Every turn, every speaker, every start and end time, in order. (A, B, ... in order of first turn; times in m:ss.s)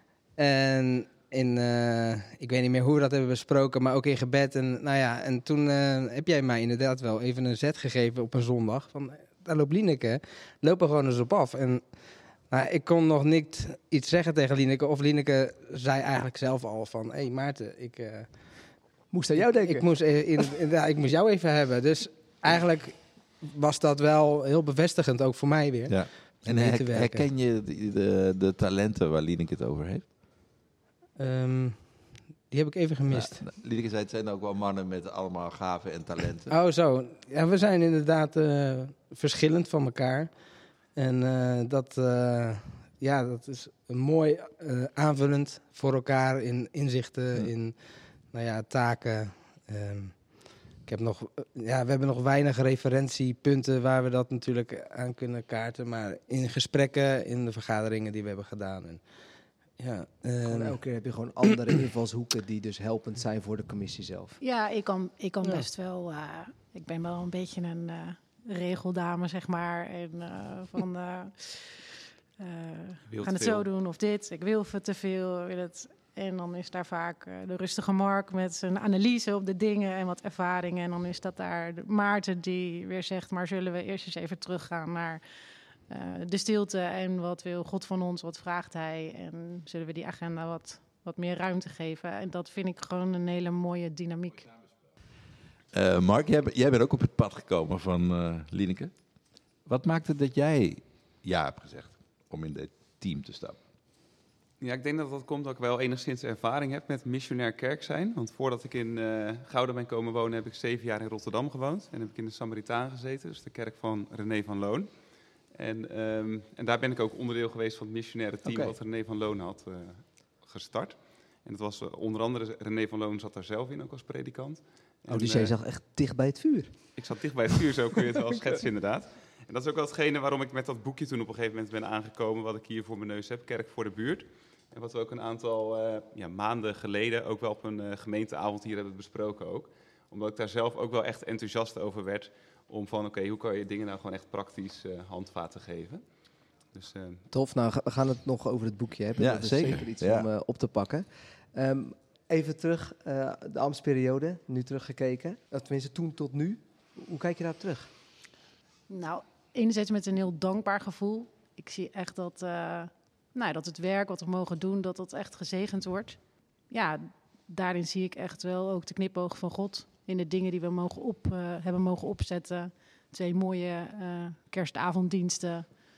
0:00.4-0:27.2 A
0:19.1-0:19.8 B
0:25.9-0:30.1 C
0:31.2-0:33.4 A
0:33.1-0:36.5 C
0:36.5-1:00.8 A
1:00.4-1:04.4 B
1:04.4-1:25.2 D
1:13.1-1:13.6 C
1:25.9-1:34.5 D
1:35.7-1:38.9 C
1:39.6-1:43.6 C
1:44.6-1:54.9 E
1:55.5-2:05.5 E
1:58.4-1:58.7 C
2:05.1-2:06.8 B
2:07.0-2:26.0 E
2:26.7-2:27.2 E
2:27.3-2:37.9 B
2:29.2-2:30.3 C
2:38.9-2:46.2 D
2:46.7-2:55.7 D